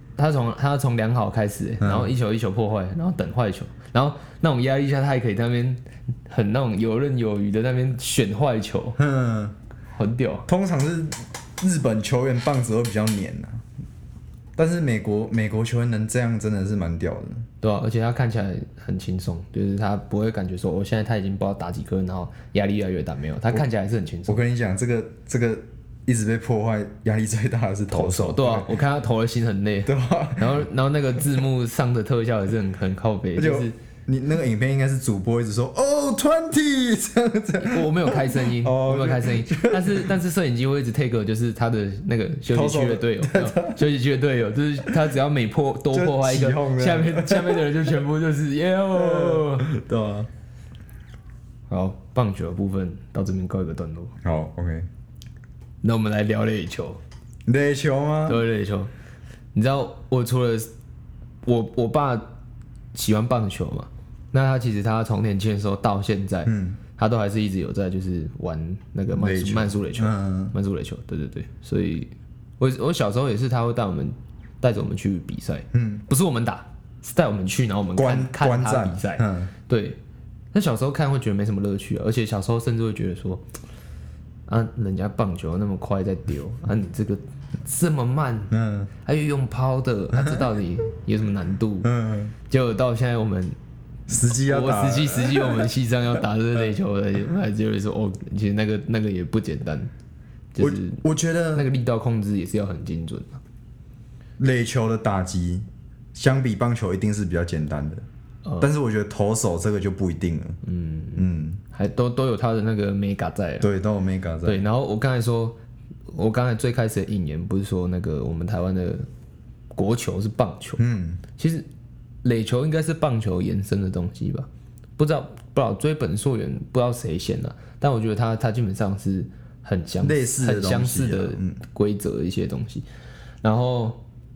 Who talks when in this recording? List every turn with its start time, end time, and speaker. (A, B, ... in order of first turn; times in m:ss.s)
0:00.2-0:09.0 A
0:01.8-0:02.1 B
0:09.0-0:09.6 B
0:09.9-0:10.5 A
0:10.5-0:13.6 B
0:14.6-0:17.4 B
0:17.6-0:24.4 A
0:24.3-0:28.7 B
0:27.9-0:33.7 A
0:29.9-0:30.6 B
0:33.4-0:40.1 B
0:37.6-0:49.6 A
0:42.5-0:43.8 B
0:45.9-0:47.7 B
0:48.9-0:50.3 B
0:51.7-0:54.1 A
0:54.2-0:54.9 B
0:55.8-0:57.0 A
0:57.5-0:58.4 B
0:58.3-0:58.9 A
0:59.5-1:00.7 A
1:01.4-1:02.2 A
1:02.9-1:20.0 A
1:06.5-1:06.8 B
1:09.1-1:10.6 B
1:15.7-1:16.0 B
1:18.0-1:19.5 B
1:20.5-1:23.4 A
1:24.5-1:31.9 A
1:28.5-1:28.9 B
1:31.8-1:32.3 B
1:32.5-1:33.6 A
1:34.1-1:35.7 B
1:34.3-1:39.9 A
1:40.6-1:41.0 A
1:40.6-1:41.7 B
1:41.5-1:43.4 A
1:44.4-1:48.0 B
1:48.6-1:50.6 B
1:50.6-1:53.7 A
1:51.2-1:51.6 B
1:53.6-1:54.6 B
1:54.4-1:55.6 A
1:56.1-1:59.1 A
1:59.8-2:00.8 A
2:00.8-2:01.2 B
2:01.4-2:01.6 A
2:02.2-2:12.8 A
2:10.0-2:11.6 B
2:13.4-2:14.0 A